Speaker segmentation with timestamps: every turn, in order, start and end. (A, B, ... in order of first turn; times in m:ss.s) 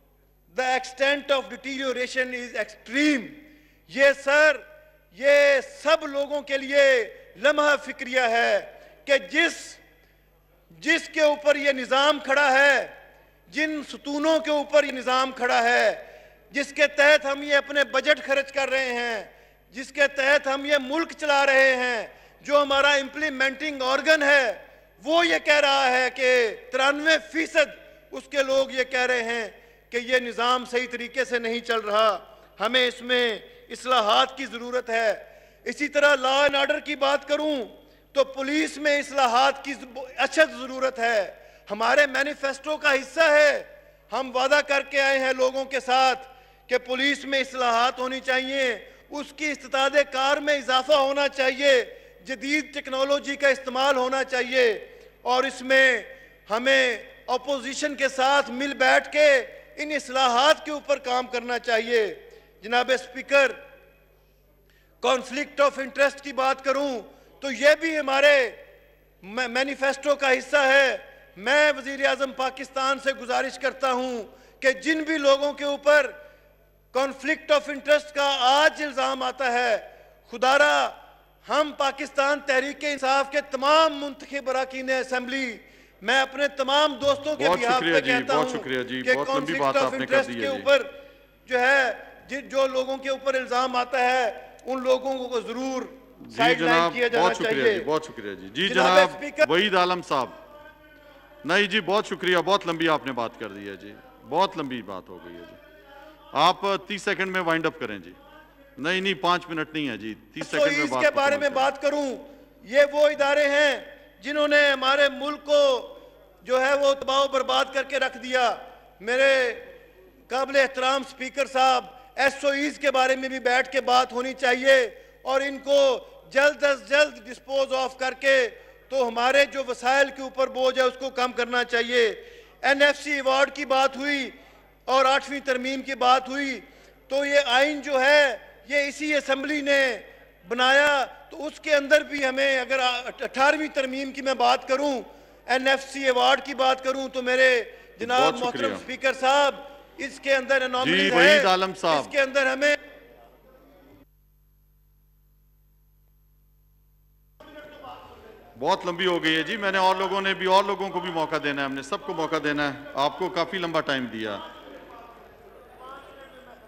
0:00.5-0:09.8 A
0:10.7-0:12.9 A
0:13.5-1:03.6 A
1:05.0-1:08.6 A
1:09.2-1:16.2 A
1:16.9-1:30.9 A
1:27.4-1:30.7 B
1:31.4-1:37.9 A
1:36.2-1:40.4 B
1:38.6-1:39.5 A
1:41.4-1:45.6 B
1:46.3-1:48.2 B
1:48.8-1:51.7 B
1:50.4-1:59.6 A
2:00.3-2:14.3 A
2:14.9-2:32.8 A
2:28.0-2:28.8 B
2:30.8-2:32.1 B
2:38.6-2:44.4 B